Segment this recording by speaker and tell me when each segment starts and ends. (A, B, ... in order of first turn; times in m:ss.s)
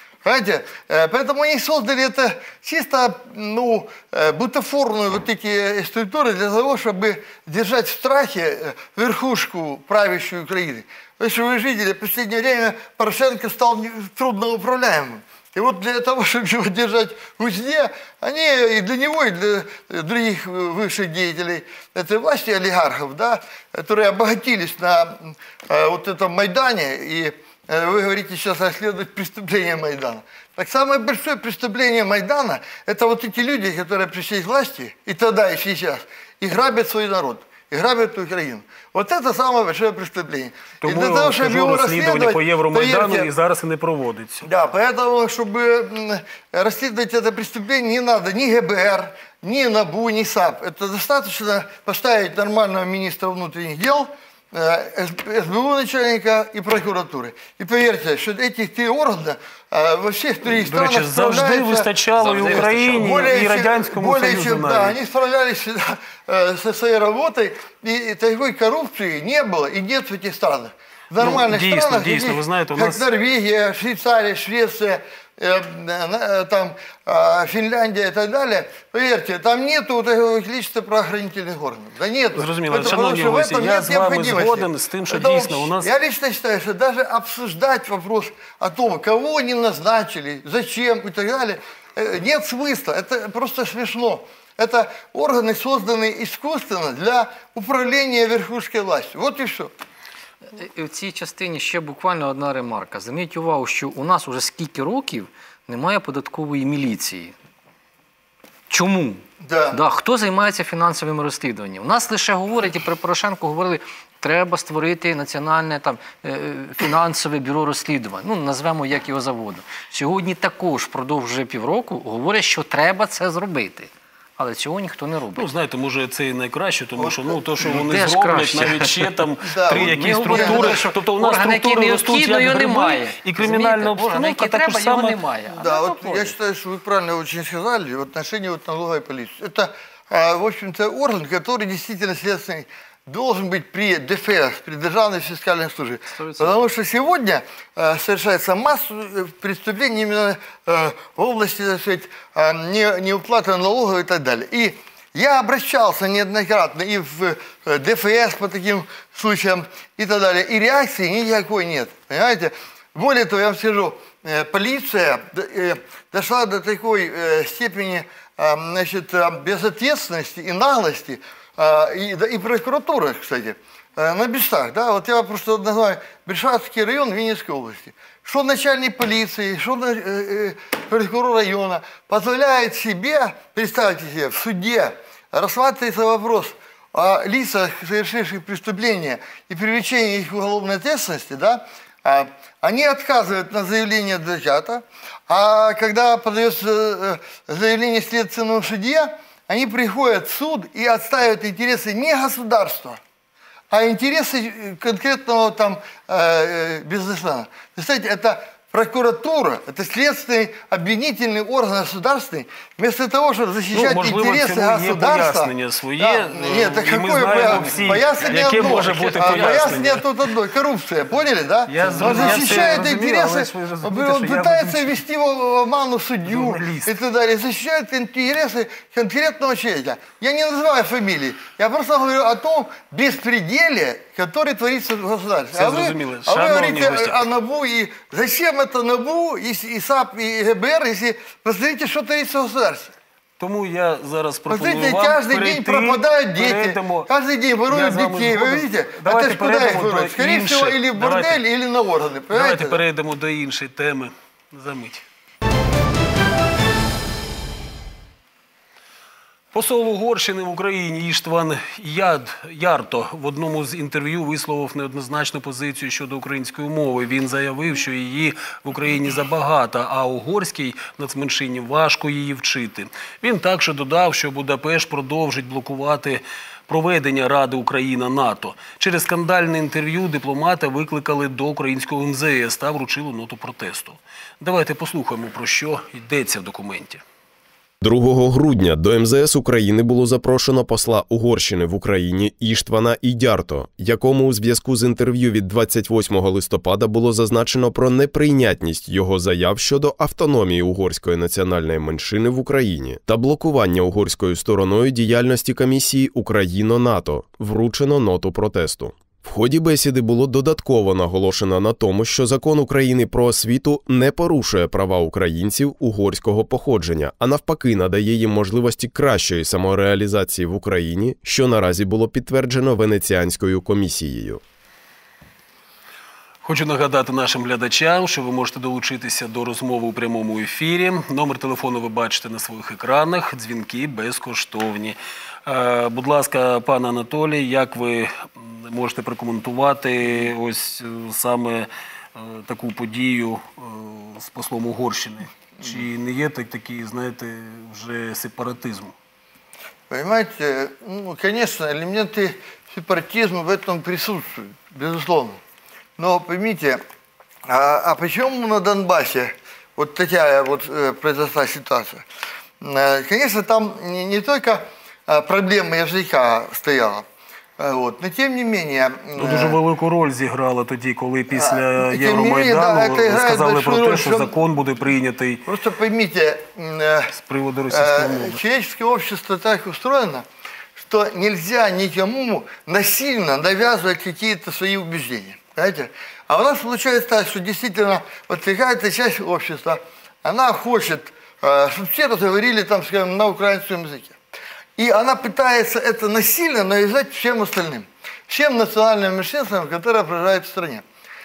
0:00.2-0:43.3 A
0:40.8-0:44.5 B
0:44.4-1:39.7 A
1:00.5-1:05.0 B
1:02.2-1:03.1 C
1:11.1-1:13.0 B
1:22.3-1:25.9 B
1:40.5-1:47.3 C
1:48.7-2:05.5 C
1:49.4-1:49.8 A
2:05.4-2:15.2 B
2:07.0-2:07.4 A
2:07.7-2:09.2 C
2:09.4-2:10.8 A
2:09.7-2:16.3 C
2:15.5-3:23.0 A
2:26.1-2:26.6 C
3:23.7-4:02.9 A
3:33.7-3:40.1 B
3:37.5-3:37.9 C
3:38.8-3:39.6 C
3:41.7-3:45.0 B
3:41.8-3:42.9 C
3:46.2-3:46.9 B
3:55.5-3:57.2 B
4:03.4-4:07.1 B
4:04.5-4:12.8 A
4:07.7-4:11.4 B
4:12.3-4:15.0 B
4:19.5-4:47.0 B
4:47.8-5:24.4 D
5:26.4-5:48.9 B
5:49.9-5:55.4 A
5:56.0-5:56.8 A
5:57.4-6:02.0 A
6:02.6-6:07.1 A
6:07.6-6:09.6 A
6:09.2-6:15.4 B
6:11.3-6:14.3 A
6:15.4-6:17.1 A
6:17.1-6:18.4 B
6:17.7-6:20.2 A
6:20.8-6:34.2 A
6:34.8-6:40.8 A